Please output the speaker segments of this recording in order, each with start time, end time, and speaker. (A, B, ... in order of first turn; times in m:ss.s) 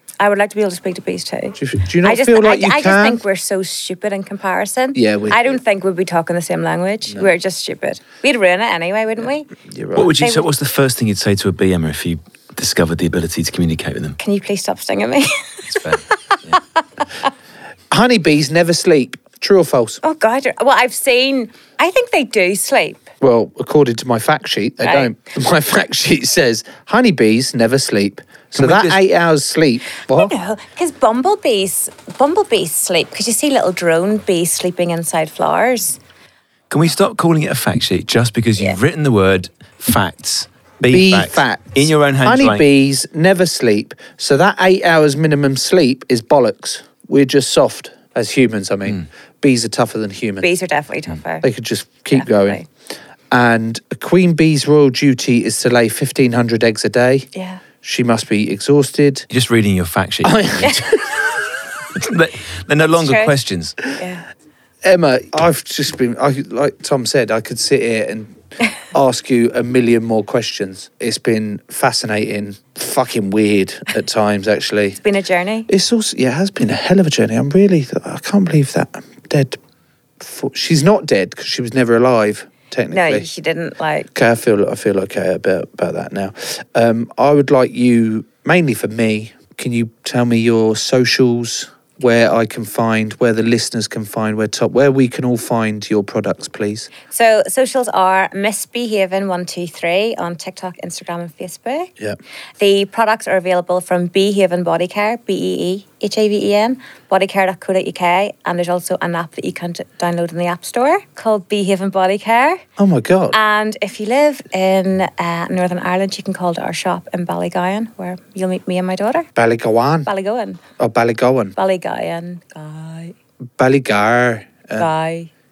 0:00.2-0:09.5 A
0:01.6-0:03.2 B
0:05.0-0:05.6 B
0:09.7-0:10.1 B
0:10.0-0:14.2 C
0:10.2-0:10.5 A
0:14.2-0:15.9 A
0:15.7-0:16.6 C
0:17.9-0:20.0 B
0:20.0-0:23.1 A
0:23.2-0:30.3 B
0:24.8-0:25.1 A
0:28.6-0:29.0 C
0:30.1-0:36.0 A
0:36.7-0:42.7 C
0:40.9-0:50.5 B
0:50.4-0:51.5 A
0:51.4-0:52.6 B
0:52.1-0:52.6 A
0:53.3-0:57.3 B
0:57.3-0:57.6 A
0:57.8-0:59.3 B
0:59.3-1:00.8 C
1:00.2-1:01.0 B
1:02.0-1:03.8 C
1:03.0-1:03.3 A
1:04.0-1:04.2 A
1:04.8-1:08.4 B
1:08.9-1:15.0 B
1:15.0-1:15.7 A
1:15.7-1:19.6 B
1:20.2-1:23.3 B
1:22.9-1:24.1 A
1:24.1-1:36.9 B
1:37.1-1:41.9 A
1:42.6-1:52.6 A
1:52.8-1:53.4 B
1:53.3-1:59.3 A
1:59.4-2:00.1 B
2:00.1-2:00.6 A
2:00.8-2:01.6 B
2:01.6-2:03.2 A
2:03.6-2:04.9 B
2:04.8-2:05.3 A